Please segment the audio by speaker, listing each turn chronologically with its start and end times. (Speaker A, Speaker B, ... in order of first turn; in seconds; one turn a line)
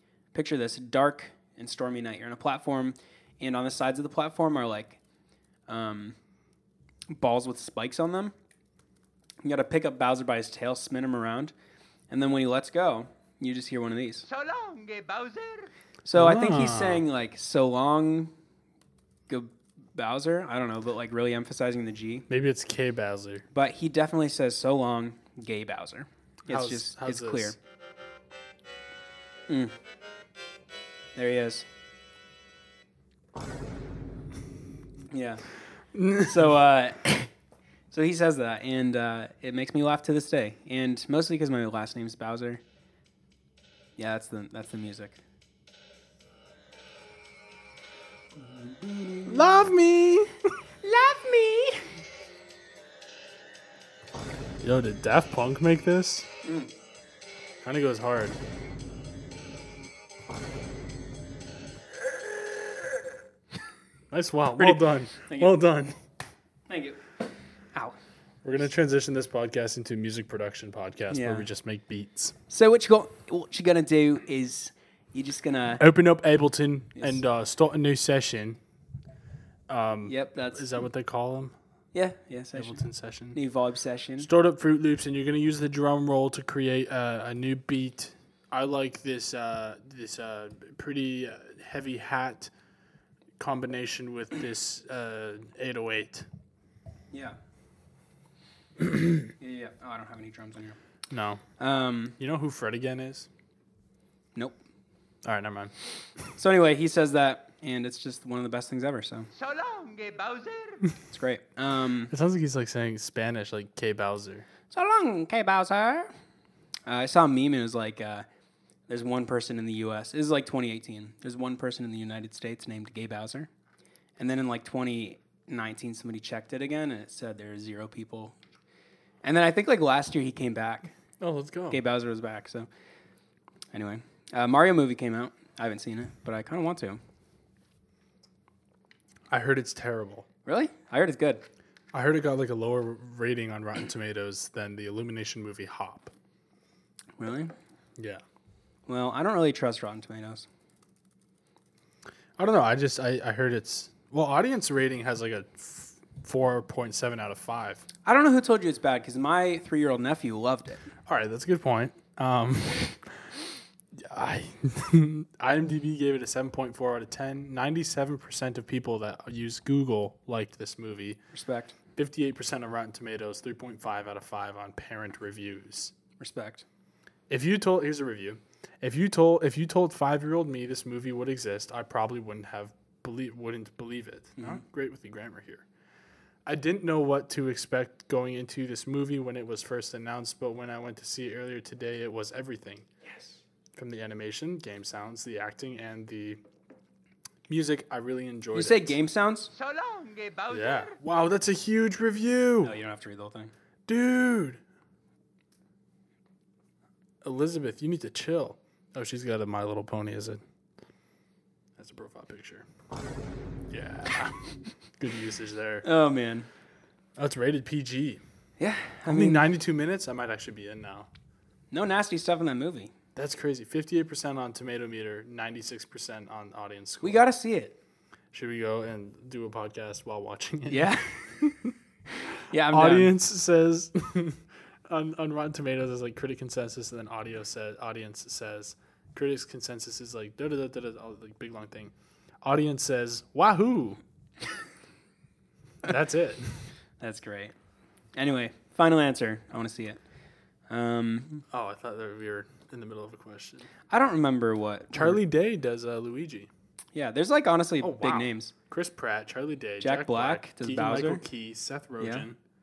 Speaker A: 0.3-5.0
Speaker A: 5.7-6.2
Speaker A: 7.1-8.3
Speaker A: 9.4-11.5
Speaker A: 12.1-14.3
Speaker B: 14.3-15.7
Speaker A: 16.1-18.3
Speaker C: 16.1-17.0
Speaker A: 19.3-22.3
Speaker C: 22.3-23.4
Speaker A: 23.5-27.6
Speaker C: 26.5-27.6
Speaker A: 29.5-29.7
Speaker A: 31.2-31.6
Speaker A: 35.1-35.4
Speaker C: 35.9-36.4
Speaker A: 36.2-37.3
Speaker A: 37.9-42.6
Speaker A: 44.0-45.2
Speaker A: 48.5-49.5
Speaker C: 49.3-50.3
Speaker A: 50.8-51.9
Speaker C: 54.6-56.3
Speaker A: 56.4-56.7
Speaker C: 57.6-58.4
Speaker C: 64.1-66.0
Speaker A: 64.6-65.5
Speaker A: 66.7-67.0
Speaker C: 68.4-72.3
Speaker A: 71.1-71.5
Speaker A: 72.5-75.8
Speaker C: 75.8-78.6
Speaker C: 79.7-81.5
Speaker A: 80.1-80.7
Speaker A: 81.9-84.3
Speaker C: 82.6-83.4
Speaker C: 84.2-92.5
Speaker C: 93.4-96.3
Speaker A: 97.1-97.4
Speaker A: 99.4-100.8
Speaker C: 101.1-101.4
Speaker A: 101.6-102.2
Speaker C: 102.2-103.3
Speaker C: 105.2-105.7
Speaker A: 106.4-109.3
Speaker B: 109.4-110.8
Speaker A: 111.1-112.1
Speaker C: 112.1-114.5
Speaker A: 114.7-116.1
Speaker A: 116.9-118.3
Speaker A: 118.9-123.5
Speaker A: 124.2-128.3
Speaker A: 129.2-130.9
Speaker C: 131.2-131.8
Speaker A: 131.7-132.7
Speaker A: 133.7-137.0
Speaker C: 139.3-140.3
Speaker A: 140.5-141.4
Speaker C: 141.9-146.1
Speaker A: 147.2-147.5
Speaker A: 148.9-150.5
Speaker C: 152.4-157.8
Speaker A: 158.1-160.8
Speaker C: 161.1-163.1
Speaker C: 164.0-171.2
Speaker A: 171.3-171.7
Speaker C: 172.0-175.9
Speaker A: 176.2-176.7
Speaker C: 177.3-185.6
Speaker A: 184.4-184.6
Speaker C: 186.5-192.9
Speaker A: 193.0-193.4
Speaker C: 193.8-196.4
Speaker C: 197.5-199.0
Speaker A: 198.5-199.5
Speaker B: 199.5-201.0
Speaker C: 200.5-202.7
Speaker A: 202.6-203.5
Speaker C: 203.9-204.6
Speaker C: 207.2-210.4
Speaker C: 211.8-212.7
Speaker C: 213.7-215.8
Speaker A: 215.8-216.5
Speaker C: 217.2-218.2
Speaker A: 218.6-219.5
Speaker C: 219.1-221.1
Speaker A: 221.7-222.9
Speaker C: 223.2-227.3
Speaker A: 227.0-227.8
Speaker C: 228.3-231.7
Speaker A: 230.7-231.2
Speaker A: 232.5-233.2
Speaker C: 232.7-241.9
Speaker C: 242.4-244.0
Speaker C: 245.8-246.6
Speaker A: 247.0-247.5
Speaker A: 248.2-250.0
Speaker A: 250.7-251.4
Speaker C: 251.5-253.7
Speaker A: 253.9-255.2
Speaker C: 254.9-256.5
Speaker A: 256.9-258.5
Speaker C: 257.8-262.4
Speaker A: 259.8-261.2
Speaker A: 262.0-262.3